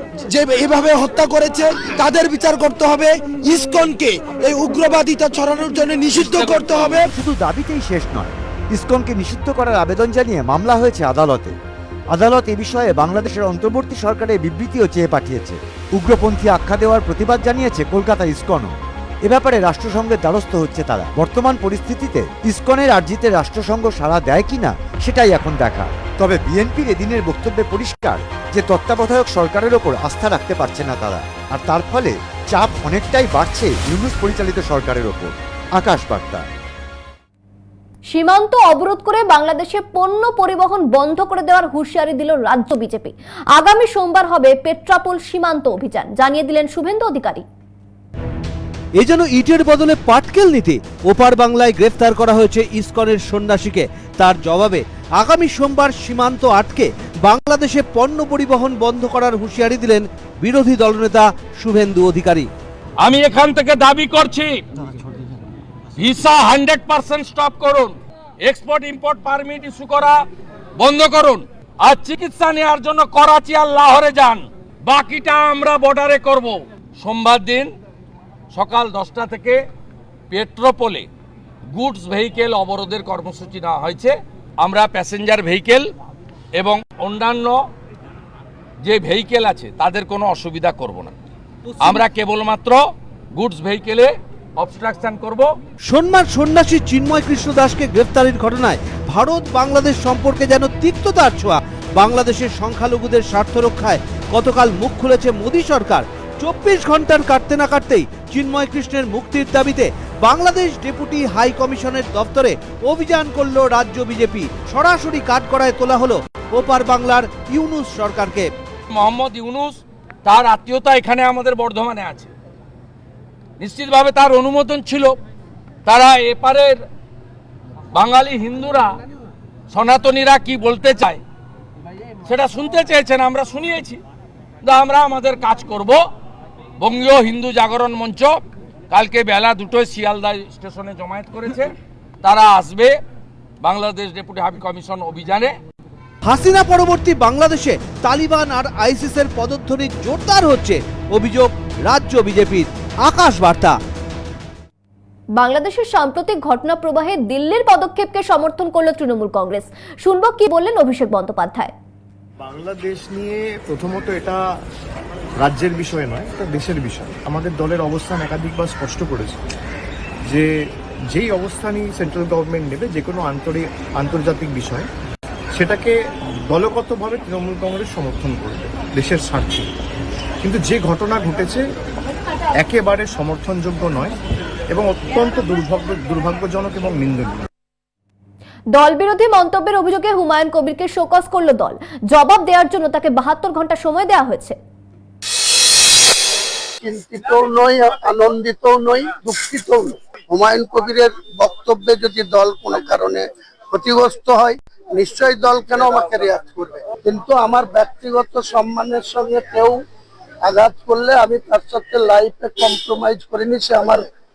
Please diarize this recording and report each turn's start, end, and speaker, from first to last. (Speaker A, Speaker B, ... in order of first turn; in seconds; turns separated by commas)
Speaker A: 0.3-7.1, Speaker B: 6.9-11.5, Speaker B: 12.1-36.4, Speaker C: 38.1-47.4, Speaker D: 49.0-62.5, Speaker E: 63.0-64.6, Speaker E: 66.0-70.2, Speaker E: 70.8-77.7, Speaker E: 78.5-79.6, Speaker E: 80.3-81.1, Speaker E: 81.7-85.9, Speaker E: 86.6-87.6, Speaker E: 88.8-91.1, Speaker E: 91.8-92.8, Speaker E: 93.3-95.5, Speaker D: 95.8-118.5, Speaker E: 118.9-122.3, Speaker E: 123.6-125.1, Speaker E: 125.9-126.8, Speaker E: 127.9-128.9, Speaker E: 129.7-131.2, Speaker E: 132.2-134.0, Speaker E: 134.6-136.0, Speaker E: 136.8-138.4, Speaker E: 138.9-141.7, Speaker E: 142.2-142.9, Speaker E: 143.6-145.5, Speaker D: 146.2-153.8, Speaker C: 155.4-161.7, Speaker F: 162.4-164.4, Speaker F: 165.4-169.4, Speaker F: 171.1-174.9, Speaker F: 175.6-175.9, Speaker F: 176.5-179.7, Speaker F: 180.4-181.6, Speaker F: 182.6-184.2, Speaker F: 184.7-187.4, Speaker C: 188.7-194.6, Speaker G: 196.8-209.8, Speaker G: 210.4-214.0